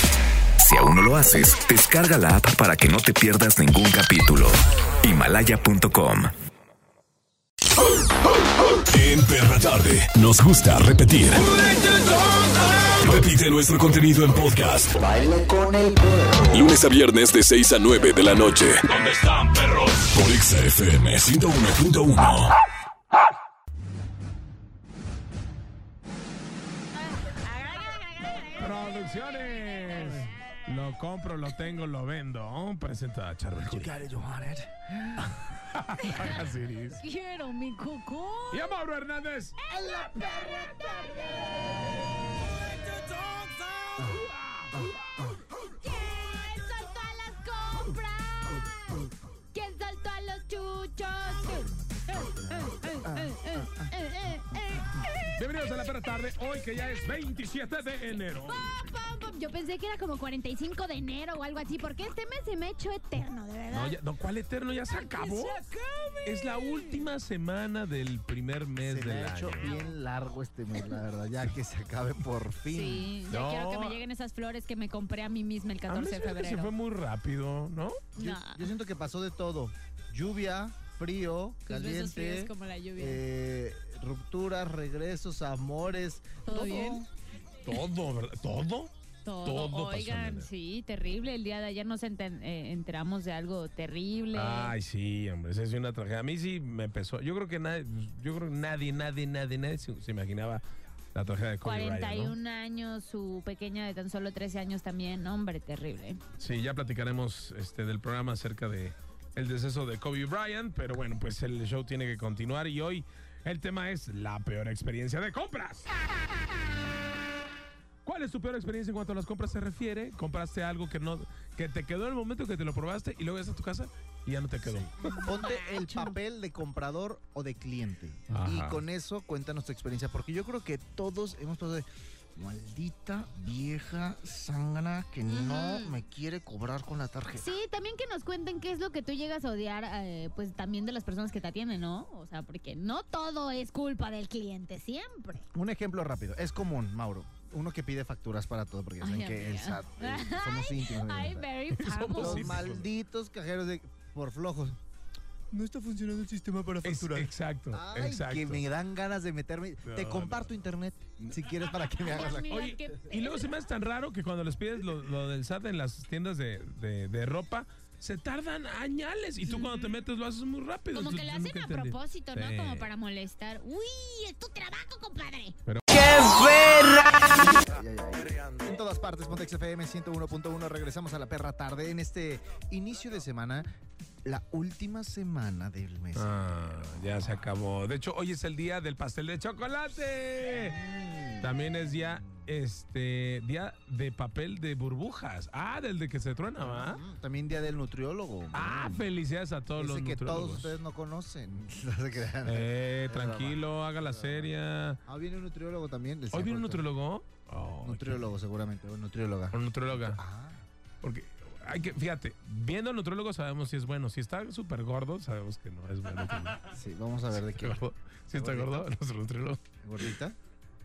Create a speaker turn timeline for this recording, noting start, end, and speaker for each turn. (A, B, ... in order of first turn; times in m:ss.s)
0:00.6-0:06.3 A
0:08.9-0:15.0 B
0:15.2-0:16.0 C
0:16.5-0:22.6 B
0:27.0-0:30.6 D
0:28.6-0:33.9 E
0:30.0-0:30.3 C
0:33.6-0:35.4 C
0:35.2-0:37.0 E
0:36.0-0:36.4 D
0:37.0-0:38.8 D
0:38.5-0:39.6 E
0:39.6-0:41.7 D
0:39.7-0:41.5 C
0:42.6-0:44.0 D
0:44.0-0:45.0 C
0:44.1-0:44.9 E
0:45.7-0:55.3 D
0:51.5-0:53.9 C
0:55.3-0:58.7 E
0:58.1-1:04.0 D
1:03.7-1:05.6 E
1:05.0-1:07.1 D
1:06.3-1:09.7 E
1:08.8-1:13.1 C
1:09.5-1:10.0 D
1:12.7-1:16.7 D
1:13.3-1:14.0 E
1:15.9-1:18.1 E
1:18.2-1:18.7 D
1:18.2-1:27.1 C
1:21.7-1:23.2 D
1:26.5-1:27.1 D
1:27.7-1:28.9 E
1:29.2-1:34.7 D
1:29.4-1:30.5 E
1:34.3-1:40.6 E
1:41.1-1:42.4 E
1:41.6-1:46.2 D
1:46.4-1:55.9 E
1:58.0-2:05.2 E
2:04.6-2:17.5 C
2:05.0-2:06.2 D
2:08.3-2:08.8 E
2:15.3-2:16.0 D
2:17.4-2:25.4 D
2:25.5-2:31.5 C
2:29.0-2:32.7 D
2:31.7-2:32.9 E
2:32.2-2:34.8 C
2:35.5-2:42.5 C
2:36.8-2:38.6 E
2:39.8-2:40.5 E
2:42.0-2:43.7 D
2:42.5-2:52.9 E
2:50.9-2:55.6 D
2:55.7-2:56.0 E
2:57.3-3:03.7 C
3:04.2-3:07.4 C
3:06.2-3:10.8 E
3:10.5-3:12.5 C
3:11.4-3:17.0 E
3:16.6-3:19.0 C
3:18.5-3:20.8 E
3:19.8-3:24.5 C
3:22.4-3:25.0 E
3:25.1-3:26.9 C
3:26.3-3:28.3 E
3:27.8-3:30.6 C
3:29.5-3:30.2 E
3:31.0-3:36.6 E
3:36.7-3:38.9 C
3:37.4-3:40.0 E
3:39.8-3:40.4 C